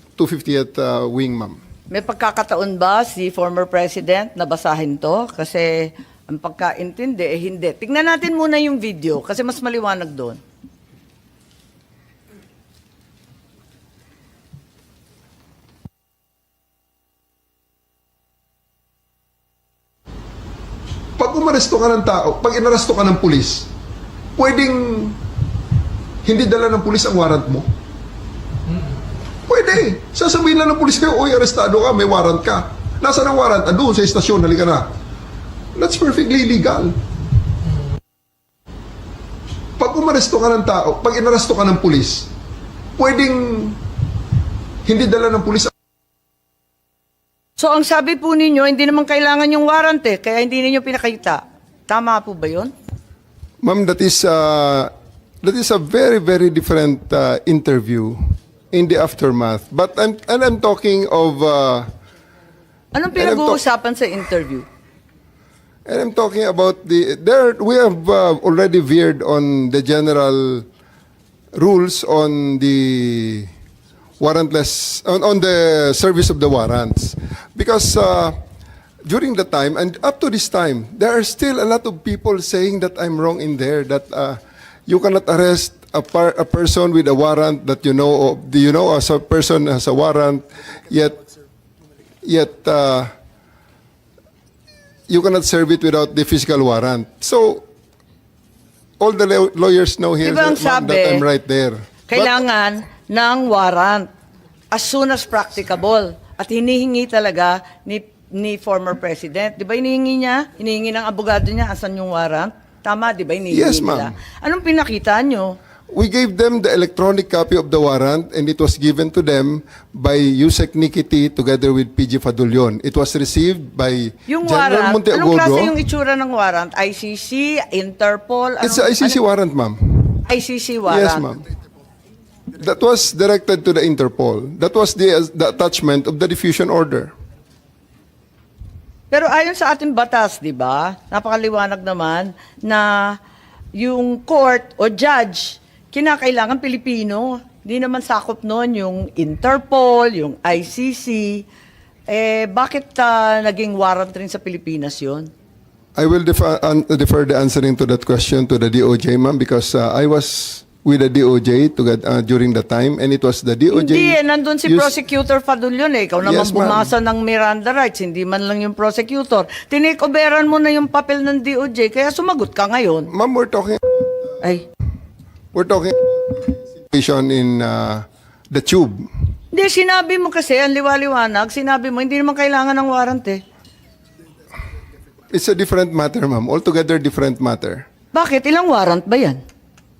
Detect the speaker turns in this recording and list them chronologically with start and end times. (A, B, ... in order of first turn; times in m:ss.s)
0:00.2-0:01.6 A
0:01.9-0:10.4 B
0:21.2-0:23.7 A
0:24.4-0:25.2 A
0:26.2-0:27.7 A
0:29.5-0:34.9 A
0:35.7-0:37.0 A
0:39.8-0:42.3 A
0:43.0-0:43.8 A
0:44.8-0:45.7 A
0:47.6-0:52.7 B
0:53.6-0:54.9 A
0:55.4-0:58.2 A
0:58.7-1:01.9 A
1:02.9-1:04.6 B
1:03.2-1:03.6 A
1:05.8-1:10.6 A
1:11.5-1:13.5 A
1:14.2-1:18.4 A
1:19.0-1:31.2 A
1:32.2-1:33.1 A
1:35.1-1:37.6 A
1:39.0-1:42.4 A
1:40.2-1:41.2 B
1:42.1-1:44.1 B
1:44.7-1:55.6 B
1:53.5-1:54.1 A
1:55.9-2:05.8 A
2:04.3-2:09.2 B
2:08.6-2:10.2 A
2:10.2-2:11.2 B
2:10.8-2:11.4 A
2:12.6-2:17.1 A
2:19.1-2:23.2 B
2:23.7-2:31.4 B
2:32.1-2:35.3 B
2:36.0-2:44.9 A
2:43.7-2:53.1 B
2:46.2-2:46.9 A
2:53.1-2:54.4 A
2:55.5-2:59.0 A
2:59.5-3:03.4 B
3:05.3-3:07.8 A
3:08.1-3:09.4 B